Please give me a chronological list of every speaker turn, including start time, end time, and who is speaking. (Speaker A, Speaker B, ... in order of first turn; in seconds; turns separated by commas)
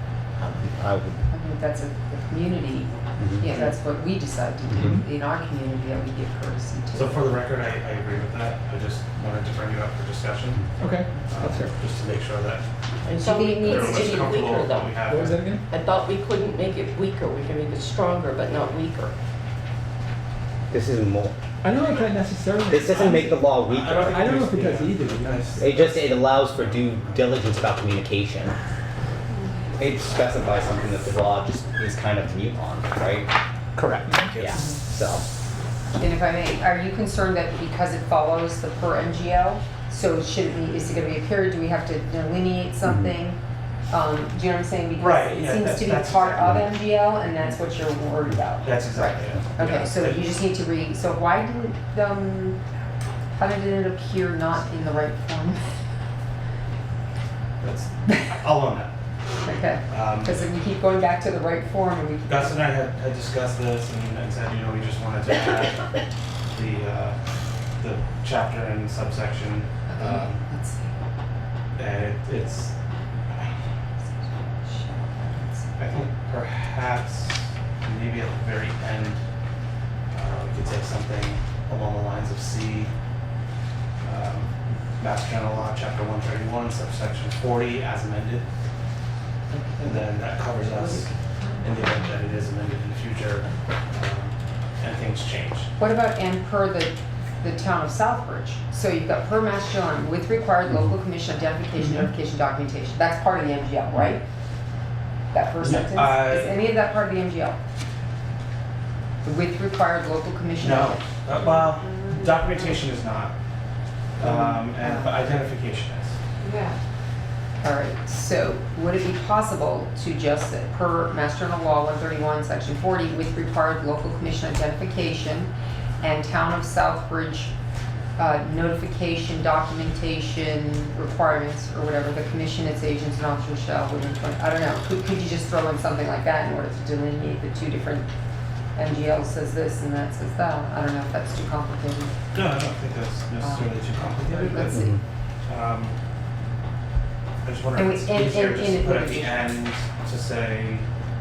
Speaker A: 0.4-1.2, Speaker B: 1.3-7.4, Speaker A: 3.2-3.7, Speaker A: 4.7-5.0, Speaker C: 4.7-5.1, Speaker D: 6.9-10.7, Speaker C: 10.8-11.7, Speaker D: 11.3-12.6, Speaker E: 13.1-15.0, Speaker B: 13.2-14.6, Speaker D: 13.6-15.5, Speaker C: 15.0-15.6, Speaker E: 15.7-19.1, Speaker A: 20.7-21.3, Speaker C: 21.6-23.3, Speaker A: 22.7-24.2, Speaker D: 22.9-26.0, Speaker C: 24.0-25.7, Speaker A: 25.6-28.6, Speaker A: 29.8-33.3, Speaker C: 34.0-34.3, Speaker A: 34.2-35.3, Speaker B: 36.0-52.6, Speaker A: 42.8-43.1, Speaker D: 45.0-46.8, Speaker D: 48.6-50.3, Speaker B: 53.4-55.6, Speaker D: 57.6-58.9, Speaker B: 59.4-62.8, Speaker D: 59.9-60.4, Speaker D: 62.3-66.0, Speaker D: 66.5-67.2, Speaker D: 67.8-70.5, Speaker B: 69.9-70.9, Speaker D: 71.8-72.7, Speaker B: 74.3-76.1, Speaker D: 75.8-79.2, Speaker D: 80.1-82.9, Speaker D: 84.0-88.5, Speaker B: 89.5-90.2, Speaker D: 89.8-95.7, Speaker B: 95.8-104.2, Speaker B: 105.3-107.6, Speaker D: 105.6-106.6, Speaker B: 109.2-111.1, Speaker D: 110.6-113.3, Speaker E: 111.8-112.2, Speaker D: 114.2-116.2, Speaker B: 114.2-115.3, Speaker E: 116.4-116.7, Speaker B: 117.6-127.5, Speaker B: 128.2-138.1, Speaker B: 138.8-142.2, Speaker D: 142.3-144.9, Speaker B: 143.4-145.0, Speaker A: 144.7-145.0, Speaker D: 145.4-146.0, Speaker D: 147.4-150.9, Speaker B: 147.8-149.6